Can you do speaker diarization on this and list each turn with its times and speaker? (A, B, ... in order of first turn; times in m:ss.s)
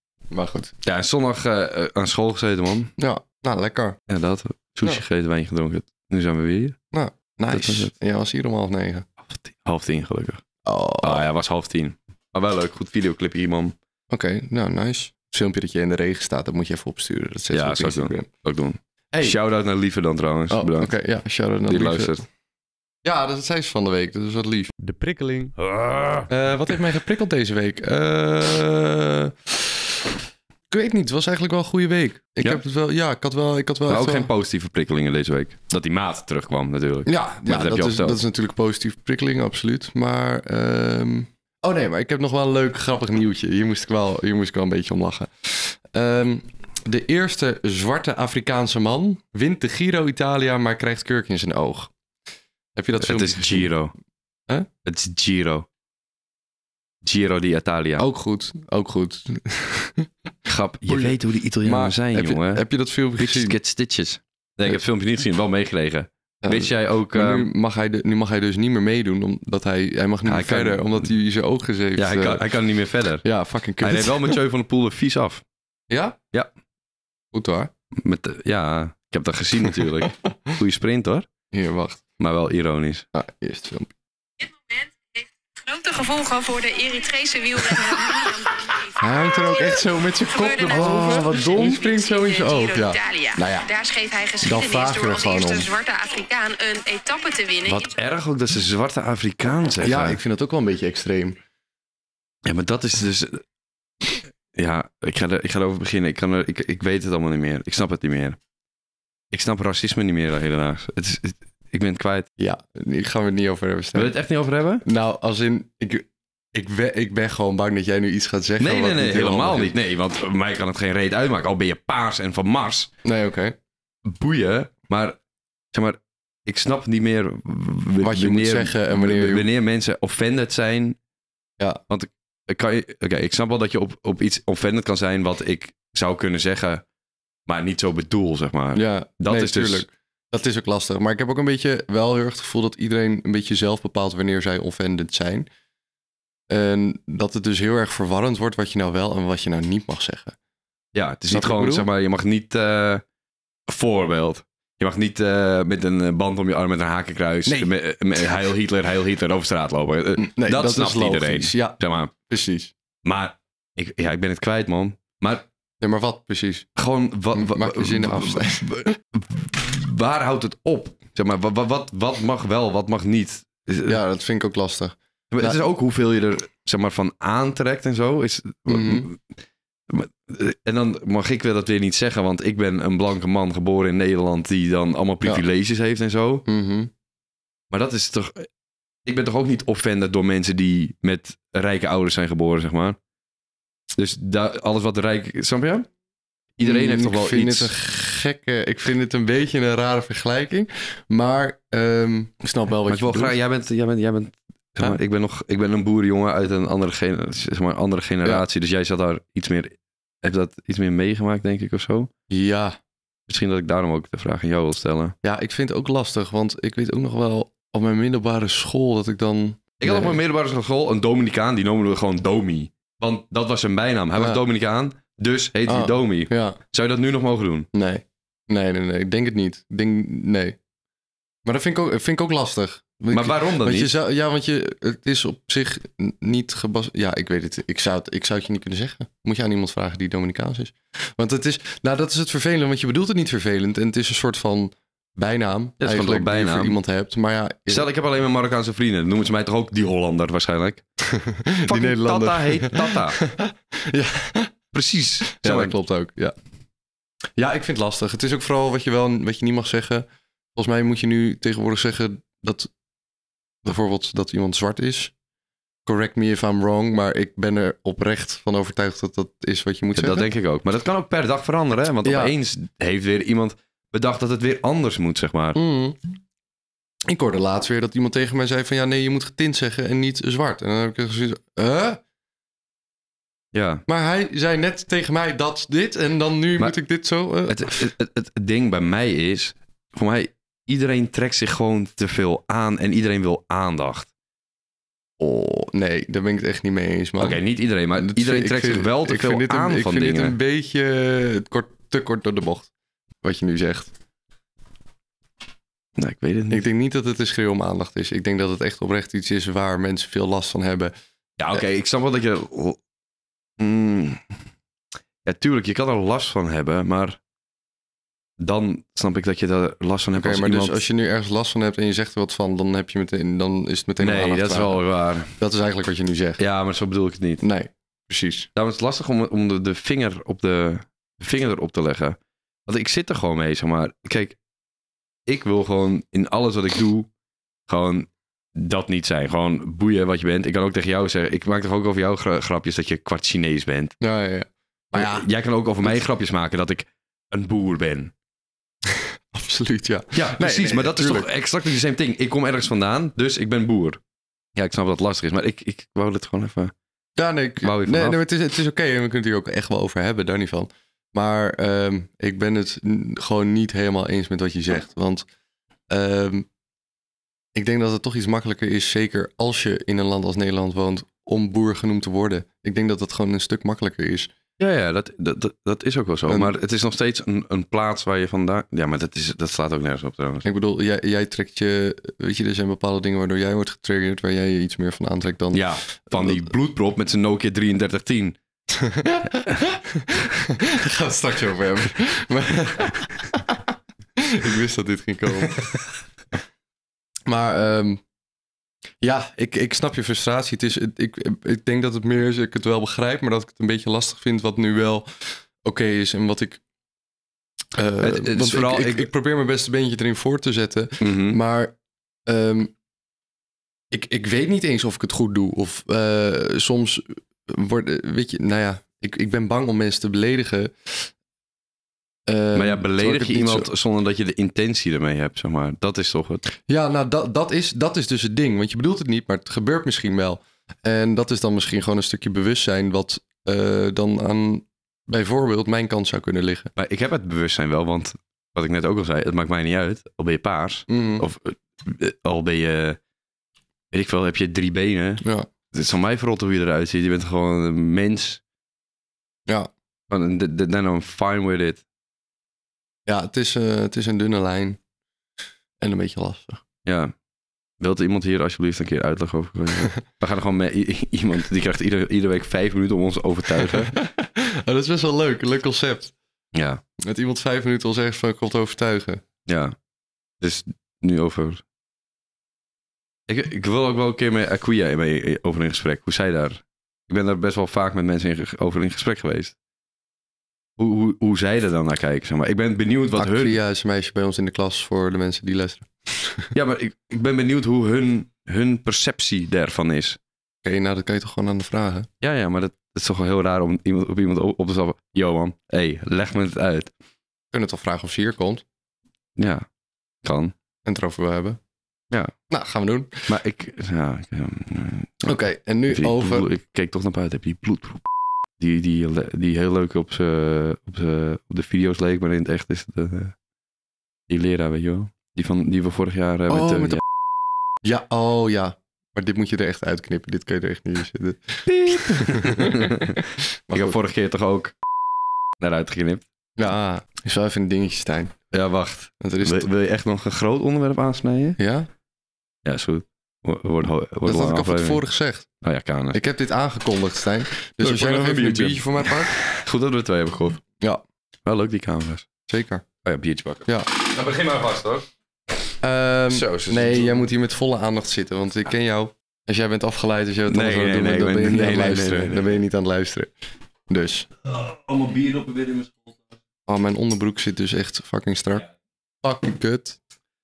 0:00.3-0:00.7 A
0:00.8-0:02.9 B
0:03.0-0:04.0 A
0:04.1-0:06.8 B
0:06.9-0:09.0 A
0:07.5-0:07.9 B
0:09.3-0:10.4 B
0:10.6-0:11.2 A
0:11.0-0:13.8 B
0:14.1-0:18.3 A
0:17.5-0:20.9 B
0:19.1-0:19.4 A
0:20.5-0:22.1 A
0:21.7-0:22.2 B
0:23.0-0:25.5 A
0:25.5-0:26.3 B
0:26.3-0:29.9 A
0:30.7-0:34.3 A
0:33.9-0:38.2 B
0:37.0-0:51.9 A
0:52.8-0:53.7 A
0:53.0-0:53.9 B
0:54.8-0:55.7 B
0:57.0-0:58.0 B
0:58.0-1:00.1 A
1:00.4-1:02.6 B
1:00.9-1:03.6 A
1:03.2-1:07.5 B
1:06.4-1:12.4 A
1:10.2-1:11.0 B
1:12.0-1:13.2 B
1:13.2-1:14.4 A
1:13.8-1:15.4 B
1:15.9-1:16.2 A
1:17.3-1:17.7 A
1:18.0-1:21.3 B
1:21.5-1:22.0 A
1:22.2-1:23.0 B
1:23.1-1:23.9 A
1:24.4-1:37.9 C
1:29.0-1:33.7 A
1:30.7-1:31.3 B
1:34.4-1:35.7 A
1:37.7-1:40.2 B
1:39.8-1:41.4 A
1:42.4-1:43.4 B
1:44.5-1:48.4 B
1:49.3-1:52.3 B
1:52.4-1:54.1 A
1:53.9-1:54.8 B
1:54.8-1:59.8 A
1:58.6-2:02.9 B
2:03.0-2:03.6 A
2:04.0-2:05.2 B
2:05.7-2:11.0 B
2:08.0-2:09.5 A
2:11.9-2:16.8 B
2:17.5-2:19.8 B
2:18.7-2:25.5 A
2:26.5-2:30.4 A
2:30.9-2:33.0 B
2:31.3-2:31.8 A
2:33.7-2:42.1 B
2:37.4-2:37.7 A
2:40.2-2:42.7 A
2:43.0-2:45.4 B
2:45.8-2:46.7 A
2:46.8-2:54.0 B
2:47.3-2:49.0 A
2:53.9-2:55.6 A
2:55.3-2:59.2 B
2:58.7-2:59.1 A
2:59.9-3:06.4 B
3:06.4-3:06.9 A
3:07.7-3:08.5 B
3:09.0-3:13.0 B
3:14.0-3:15.9 B
3:16.6-3:17.7 B
3:16.6-3:23.4 A
3:22.9-3:32.1 B
3:32.3-3:32.8 A
3:33.3-3:35.1 B
3:35.2-3:40.2 A
3:39.8-3:47.7 B
3:44.1-3:44.4 A
3:45.6-3:46.6 A
3:47.7-3:50.6 A
3:51.4-4:07.9 A
3:53.1-3:53.9 B
4:05.8-4:06.8 B
4:07.7-4:10.8 B
4:11.0-4:14.5 A
4:11.6-4:13.2 B
4:14.7-4:15.7 B
4:15.3-4:16.3 A
4:17.4-4:22.7 A
4:23.6-4:25.1 A
4:25.8-4:30.2 A
4:29.9-4:35.6 B
4:32.0-4:32.3 A
4:35.5-4:36.0 A
4:37.1-4:42.0 A
4:43.5-4:43.8 B
4:43.9-4:47.6 A
4:47.5-4:54.1 B
4:55.2-4:57.4 A
4:57.2-5:00.4 B
4:58.0-5:02.7 A
5:03.2-5:03.9 A
5:06.0-5:06.6 B
5:06.5-5:10.9 A
5:11.4-5:12.8 B
5:13.6-5:14.2 B
5:15.2-5:17.2 B
5:18.4-5:20.8 B
5:20.2-5:24.8 A
5:24.0-5:25.3 B
5:25.4-5:26.4 A
5:26.4-5:27.4 B
5:27.4-5:28.5 A
5:28.5-5:34.4 B
5:35.3-5:37.1 B
5:37.7-5:44.0 B
5:44.0-5:45.3 A
5:44.9-5:48.1 B
5:48.9-5:51.3 A
5:50.1-5:54.0 B
5:54.6-5:56.7 B
5:57.2-6:05.2 A
5:57.6-5:58.2 B
6:05.9-6:06.5 A
6:07.5-6:14.3 A
6:14.6-6:20.5 B
6:16.3-6:16.5 A
6:20.4-6:26.4 A
6:25.5-6:28.4 B
6:28.7-6:33.6 A
6:34.2-6:35.9 A
6:37.3-6:38.0 A
6:39.0-6:46.6 A
6:47.7-6:51.7 A
6:48.0-6:49.1 B
6:51.0-6:51.4 B
6:52.2-6:52.7 A
6:53.9-7:01.1 A
7:02.2-7:03.7 A
7:02.5-7:06.4 B
7:06.6-7:16.7 A
7:16.8-7:23.0 B
7:20.9-7:21.2 A
7:23.9-7:28.4 B
7:30.1-7:31.8 B
7:33.0-7:34.8 A
7:35.8-7:36.6 A
7:36.8-7:37.1 B
7:37.8-7:44.0 B
7:43.6-7:46.1 A
7:46.5-7:46.8 B
7:47.0-7:49.2 A
7:49.4-7:49.7 B
7:50.4-7:51.6 B
7:53.3-7:59.6 B
8:00.8-8:03.6 B
8:03.1-8:06.5 A
8:06.5-8:10.2 B
8:10.6-8:12.1 A
8:12.2-8:16.9 B
8:17.5-8:18.6 A
8:19.4-8:19.6 B
8:20.2-8:20.5 B
8:20.8-8:21.6 A
8:22.5-8:23.3 A
8:23.3-8:25.3 B
8:25.2-8:26.5 A
8:25.9-8:28.0 B
8:28.6-8:33.3 B
8:34.3-8:37.0 B
8:36.5-8:37.0 A
8:37.8-8:44.0 A
8:41.6-8:44.7 B
8:45.6-8:46.2 B
8:46.6-8:48.3 A
8:48.5-8:51.6 B
8:49.2-8:49.7 A
8:51.6-8:51.9 A
8:52.6-8:55.0 B
8:54.2-8:55.5 A
8:55.6-8:56.2 B
8:56.1-8:59.4 A
8:57.8-9:00.6 B
9:01.4-9:02.3 B
9:02.5-9:02.8 A
9:03.0-9:05.1 B
9:03.6-9:03.9 A
9:05.8-9:13.3 A
9:06.3-9:07.2 B
9:10.5-9:12.6 B
9:13.9-9:14.3 A
9:14.4-9:16.3 B
9:16.7-9:18.7 A
9:19.2-9:20.0 A